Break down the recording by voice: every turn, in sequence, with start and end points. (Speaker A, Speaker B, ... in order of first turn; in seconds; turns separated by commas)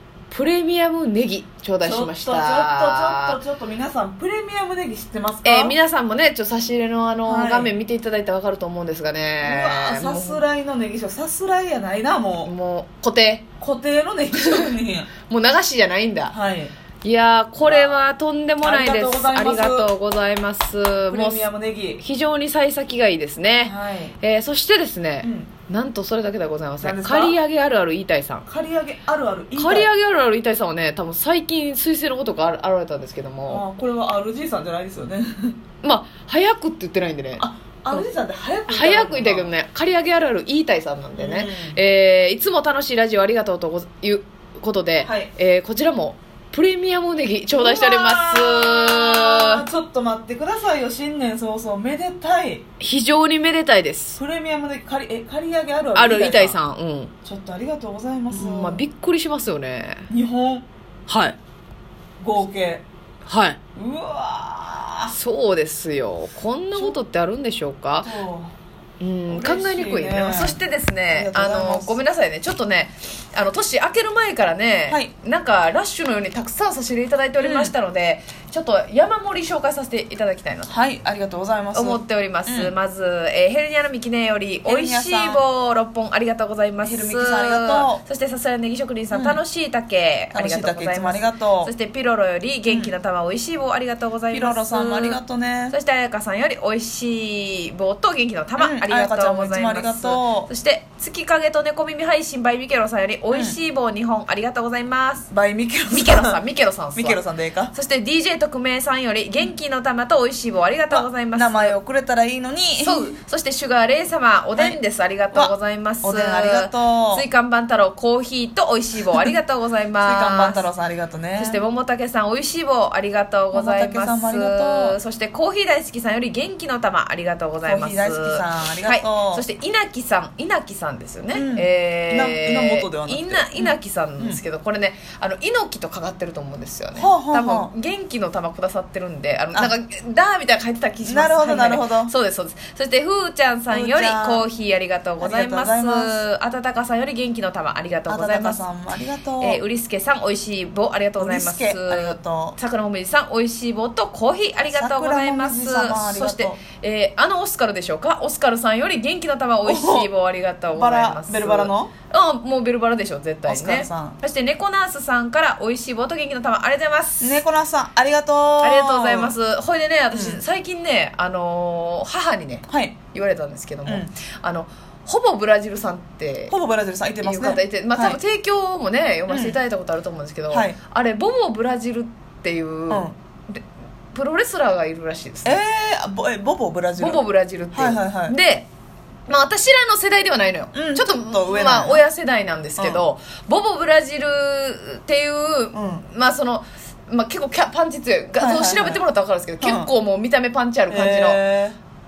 Speaker A: 0.3-3.4, Speaker B: 1.8-5.8, Speaker A: 5.4-10.4, Speaker B: 7.2-7.7, Speaker B: 9.4-12.5, Speaker A: 12.4-13.5, Speaker B: 13.6-15.1, Speaker A: 14.4-14.7, Speaker A: 15.2-16.3, Speaker B: 16.3-16.7, Speaker A: 17.0-21.5, Speaker B: 17.6-18.0, Speaker B: 18.6-19.9, Speaker B: 21.1-22.0, Speaker A: 22.0-28.5, Speaker B: 23.6-24.1, Speaker B: 25.2-25.5, Speaker B: 26.8-27.4, Speaker B: 28.5-29.9, Speaker A: 29.6-33.6, Speaker B: 33.5-35.6, Speaker A: 35.8-38.0, Speaker B: 37.4-39.5, Speaker A: 38.7-49.6, Speaker B: 41.2-41.8, Speaker B: 45.0-45.3, Speaker B: 47.5-52.6, Speaker A: 52.8-54.2, Speaker B: 54.2-56.6, Speaker A: 56.0-57.1, Speaker B: 57.2-58.8, Speaker A: 58.3-60.1, Speaker B: 60.1-60.7, Speaker A: 61.1-61.4, Speaker B: 62.2-62.8, Speaker A: 63.3-63.6, Speaker B: 63.8-65.2, Speaker A: 65.1-68.1, Speaker B: 68.0-68.5, Speaker A: 69.0-80.7, Speaker B: 69.3-70.6, Speaker B: 71.1-72.0, Speaker B: 77.4-77.7, Speaker B: 80.7-82.7, Speaker A: 81.7-95.2, Speaker B: 84.7-85.4, Speaker B: 86.8-88.0, Speaker B: 89.1-89.4, Speaker B: 90.3-91.7, Speaker B: 92.7-92.9, Speaker B: 94.3-95.8, Speaker A: 95.7-105.3, Speaker B: 98.6-100.5, Speaker B: 105.3-106.4, Speaker A: 105.9-107.2, Speaker B: 106.9-107.7, Speaker A: 107.7-111.8, Speaker B: 110.9-113.2, Speaker A: 112.8-120.6, Speaker B: 115.3-117.3, Speaker B: 120.0-121.6, Speaker A: 121.4-148.6, Speaker B: 123.5-125.0, Speaker B: 127.6-129.4, Speaker B: 131.3-134.4, Speaker B: 137.0-137.7, Speaker B: 141.1-142.1, Speaker B: 143.7-144.5, Speaker B: 145.2-146.2, Speaker B: 148.1-149.6, Speaker A: 149.4-167.4, Speaker B: 151.2-152.6, Speaker B: 154.7-156.6, Speaker B: 159.7-160.1, Speaker B: 160.7-161.9, Speaker B: 163.5-164.2, Speaker B: 167.2-169.3, Speaker A: 168.6-176.5, Speaker B: 170.1-170.4, Speaker B: 172.7-173.0, Speaker B: 176.5-178.2, Speaker A: 177.2-185.6, Speaker B: 179.3-179.6, Speaker B: 180.5-180.8, Speaker B: 182.9-183.2, Speaker B: 185.4-188.3, Speaker A: 187.0-188.7, Speaker A: 189.3-201.4, Speaker B: 190.7-192.1, Speaker B: 192.8-193.0, Speaker B: 195.7-196.0, Speaker B: 198.4-199.0, Speaker B: 199.6-199.9, Speaker B: 200.9-201.8